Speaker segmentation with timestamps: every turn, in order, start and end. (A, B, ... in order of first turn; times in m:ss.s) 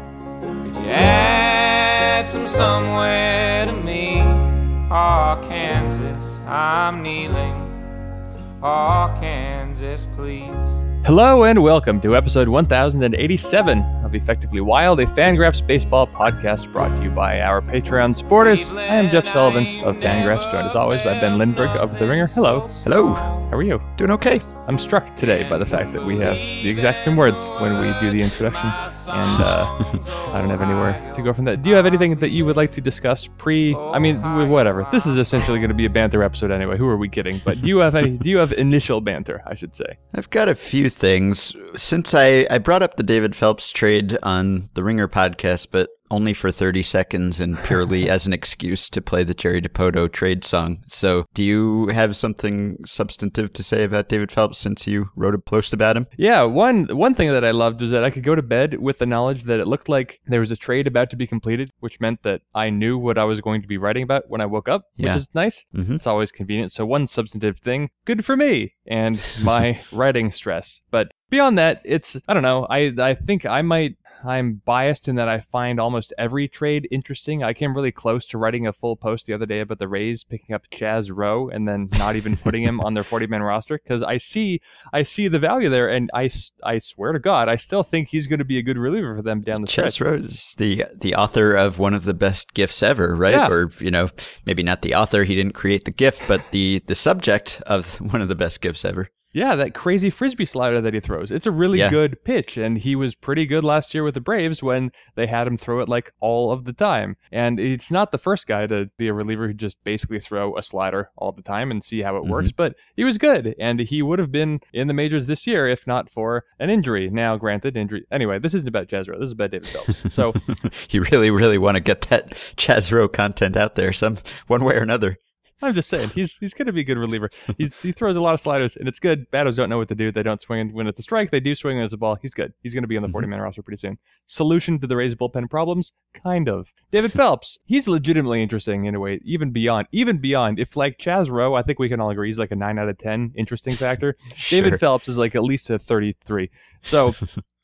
0:00.6-0:07.8 A
0:08.6-0:10.8 A
0:11.0-0:22.7 B
0:18.4-0:23.4 A
0:22.8-0:23.3 C
0:23.5-0:23.8 B
0:24.0-0:24.5 C
0:24.6-0:40.0 B
0:25.2-0:32.3 A
0:29.3-0:29.9 C
0:33.7-0:35.5 A
0:40.1-0:56.1 C
0:56.2-1:30.0 B
1:05.0-1:06.0 C
1:29.5-1:39.1 C
1:33.3-1:33.5 B
1:39.3-2:00.4 B
1:41.7-1:42.0 C
1:52.2-1:52.5 C
2:00.5-2:05.2 C
2:05.6-2:27.2 B
2:24.4-2:24.8 C